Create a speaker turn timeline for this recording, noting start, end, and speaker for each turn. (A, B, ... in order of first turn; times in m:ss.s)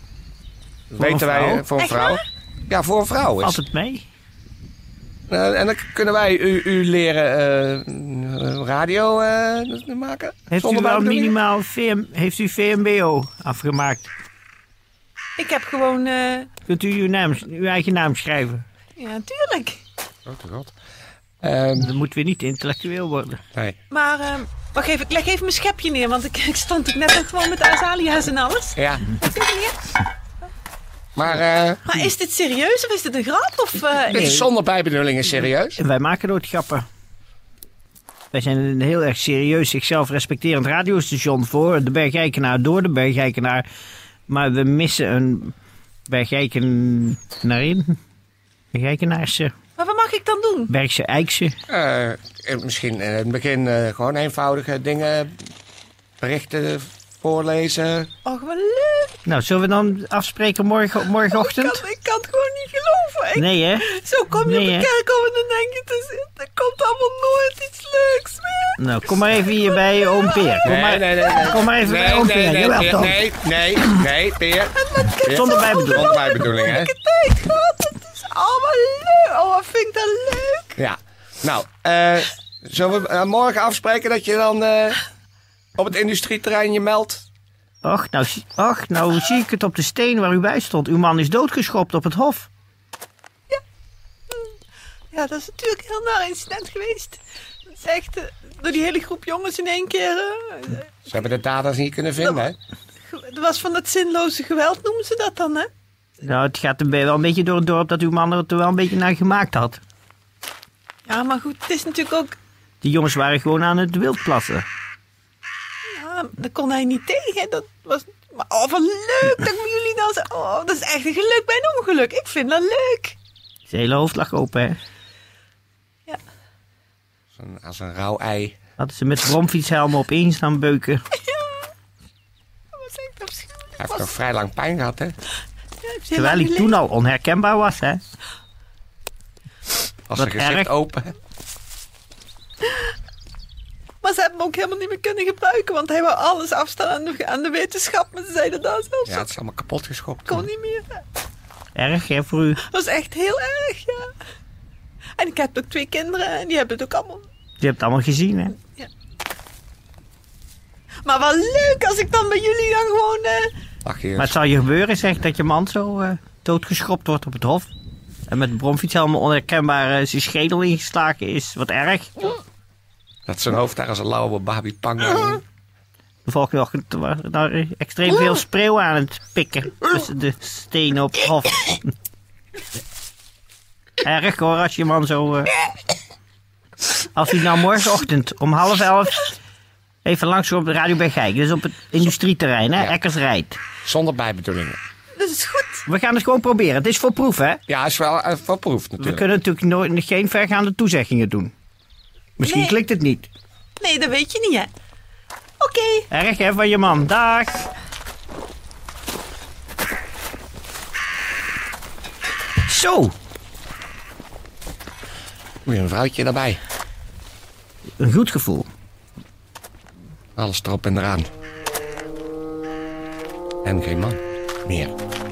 0:00.9-0:03.6 A
0:01.0-0:01.7 B
0:01.8-0:02.2 C
0:03.4-0:04.1 B
0:05.3-0:11.3 A
0:10.5-0:14.1 B
0:15.4-0:16.5 C
0:16.6-0:18.6 B
0:19.0-0:19.8 C
0:20.3-0:20.7 A
0:21.4-0:21.9 A
0:21.8-0:23.4 B
0:23.9-0:29.8 C
0:28.8-0:29.1 A
0:31.2-0:31.8 A
0:31.9-0:34.3 C
0:34.1-0:35.8 A
0:34.2-0:34.5 B
0:35.8-0:36.8 B
0:38.3-0:43.7 B
0:44.3-0:45.6 B
0:46.1-0:48.0 B
0:48.7-0:49.5 B
0:49.8-0:50.7 C
0:50.7-0:51.6 B
0:51.7-0:55.3 A
0:56.2-0:58.1 A
0:58.3-0:59.2 C
0:59.3-1:01.8 B
1:01.3-1:08.8 C
1:03.4-1:03.9 B
1:04.4-1:04.9 B
1:08.8-1:13.2 B
1:09.4-1:10.6 C
1:10.6-1:16.9 A
1:14.8-1:20.8 C
1:15.3-1:16.2 B
1:20.8-1:25.0 A
1:25.8-1:27.2 A
1:27.8-1:32.5 B
1:35.1-1:40.9 C
1:41.1-1:42.6 A
1:42.2-1:42.5 C
1:43.1-1:45.7 C
1:46.2-1:49.8 B
1:51.1-1:52.4 C
1:52.8-1:54.7 B
1:55.9-2:03.2 C
2:03.7-2:04.8 B
2:07.4-2:08.6 A
2:08.8-2:11.0 B
2:11.3-2:11.7 C
2:12.7-2:14.1 C
2:13.8-2:15.2 A
2:15.8-2:16.8 C
2:16.2-2:18.0 B
2:20.1-2:21.2 A
2:20.2-2:20.7 B
2:24.0-2:29.3 C
2:29.0-2:30.5 A
2:30.3-2:31.0 C
2:31.8-2:32.6 B
2:32.6-2:34.1 C
2:35.2-2:37.3 C
2:37.6-2:38.6 B
2:41.0-2:43.5 C
2:43.8-2:44.4 A
2:44.2-2:47.7 B
2:48.3-2:52.4 B
2:53.3-2:55.4 A
2:56.2-3:01.9 B
3:04.0-3:05.5 B
3:07.0-3:09.3 B
3:10.0-3:13.6 B
3:13.8-3:14.8 A
3:15.2-3:15.8 C
3:15.9-3:17.6 B
3:17.7-3:19.3 A
3:19.0-3:21.5 B
3:22.4-3:23.3 B
3:22.4-3:22.8 C
3:23.8-3:24.7 C
3:25.6-3:26.1 C
3:26.1-3:27.7 B
3:32.6-3:33.1 B
3:35.6-3:36.6 A
3:38.0-3:38.7 B
3:40.4-3:41.3 A
3:43.6-3:44.9 A